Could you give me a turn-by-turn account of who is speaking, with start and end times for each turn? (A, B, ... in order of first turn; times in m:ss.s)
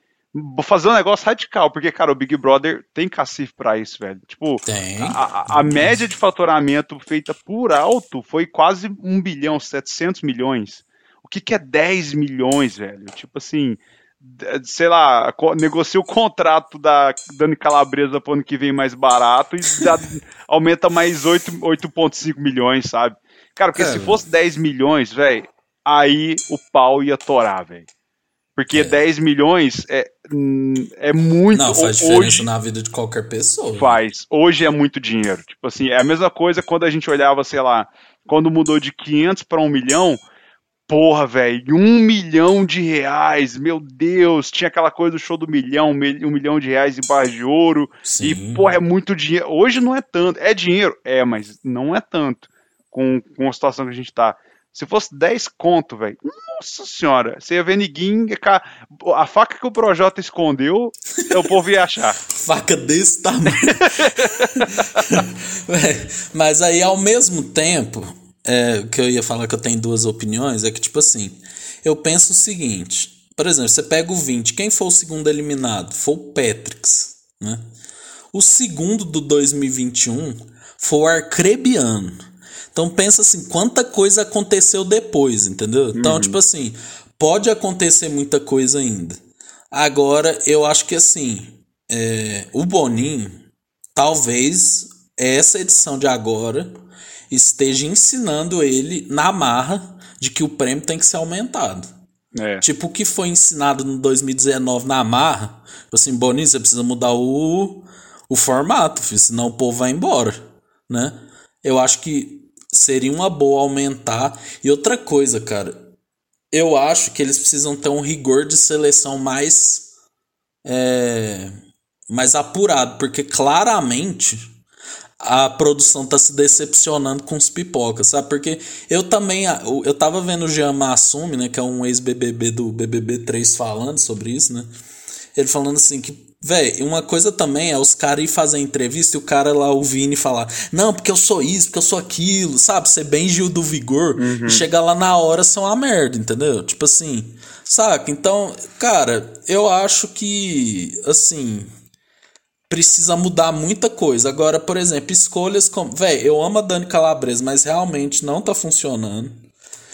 0:00.3-0:27.9 A
0:04.6-0:05.2 B
0:23.8-0:24.2 B
0:28.6-0:32.5 A
0:28.7-0:29.0 B
0:31.5-0:33.9 B
0:33.7-0:40.2 A
0:40.9-1:02.2 A
0:48.0-0:48.6 B
1:02.3-1:17.6 B
1:03.7-1:05.1 A
1:18.3-1:22.2 B
1:22.7-1:29.2 B
1:25.9-1:26.4 A
1:29.7-1:33.4 B
1:33.9-1:36.7 B
1:37.3-1:41.9 B
1:42.3-1:42.6 A
1:42.6-1:55.8 B
1:56.5-1:59.9 B
2:00.6-2:01.5 B
2:02.1-2:04.5 B
2:05.2-2:14.7 B
2:15.4-2:31.7 B
2:24.2-2:24.6 A
2:32.7-2:39.4 B